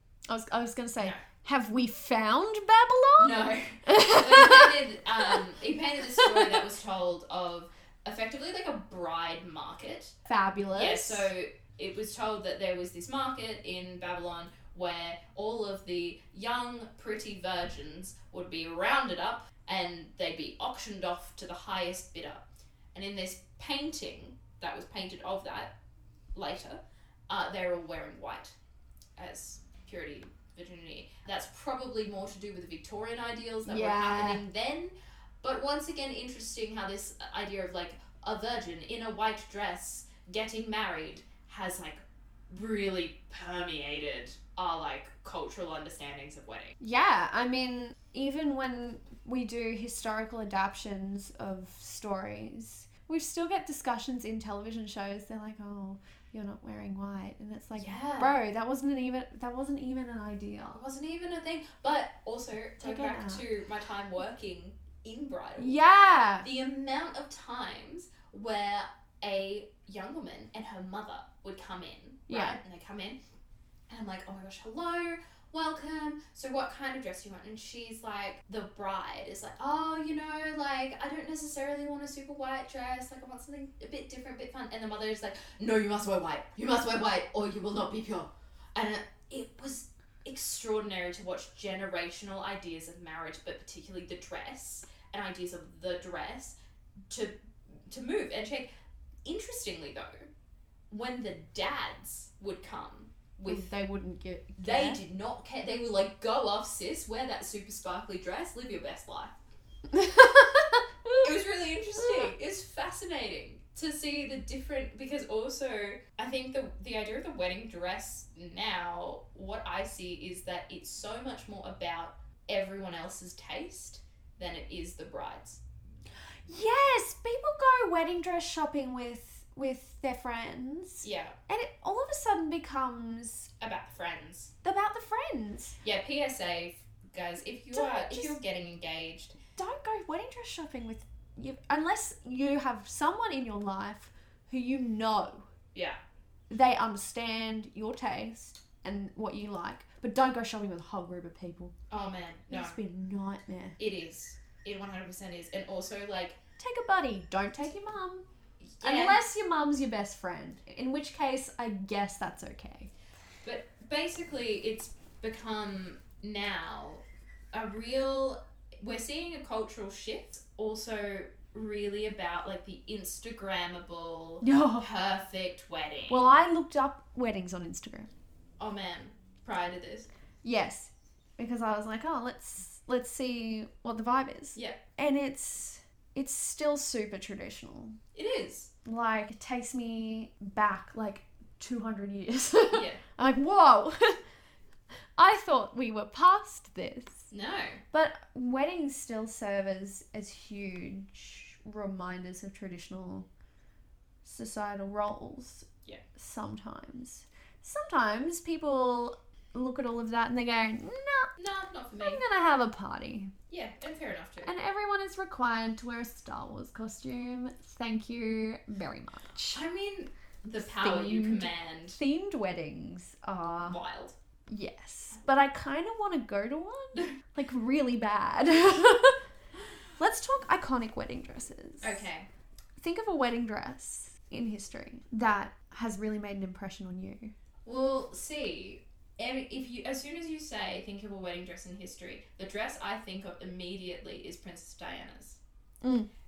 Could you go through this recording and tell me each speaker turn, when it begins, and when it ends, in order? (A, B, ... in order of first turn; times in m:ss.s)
0:00.3-0:05.5 A
0:03.2-0:10.2 B
0:06.2-0:06.7 A
0:10.2-0:11.3 A
0:10.7-0:25.8 B
0:26.4-0:28.6 B
0:29.2-0:46.8 B
0:33.6-0:34.4 A
0:46.8-1:00.8 A
0:57.8-0:58.4 B
1:00.7-1:05.8 B
1:02.8-1:03.4 A
1:05.6-1:06.5 A
1:06.4-1:13.2 B
1:12.3-1:12.6 A
1:13.9-1:36.6 B
1:37.1-1:37.4 B
1:37.9-1:38.7 B
1:39.2-1:40.3 B
1:40.9-1:43.7 B
1:43.5-1:45.0 A
1:44.6-1:49.4 B
1:49.9-1:51.3 A
1:51.2-2:05.6 B
1:52.0-1:52.3 A
2:06.5-2:13.5 A
2:11.0-2:11.4 B
2:13.6-2:14.5 B
2:14.6-2:15.8 A
2:15.8-2:19.4 B
2:17.7-2:18.4 A
2:19.6-2:25.5 A
2:25.7-2:26.0 B
2:26.5-2:31.7 A
2:31.9-2:32.8 B
2:32.5-2:33.8 A
2:33.8-2:36.4 B
2:36.6-2:38.2 A
2:38.6-2:39.2 B
2:38.8-2:42.9 A
2:43.4-2:56.3 B
2:54.4-2:54.9 A
2:56.1-2:58.1 A
2:58.6-3:00.1 B
3:00.4-3:08.0 A
3:08.2-3:08.7 B
3:08.8-3:14.2 A
3:12.7-3:13.0 B
3:15.2-3:17.3 A
3:17.3-3:17.8 B
3:17.9-3:23.3 A
3:24.2-3:31.3 A
3:31.4-3:32.2 B
3:32.0-3:33.3 A
3:33.5-3:34.5 B
3:34.4-3:39.6 A
3:39.5-3:42.0 B
3:40.6-3:43.8 A
3:43.6-3:44.2 B
3:44.5-3:49.2 A
3:50.0-3:52.0 A
3:51.8-3:52.3 B
3:52.8-3:57.3 A
3:57.7-4:05.4 B
4:05.8-4:06.1 A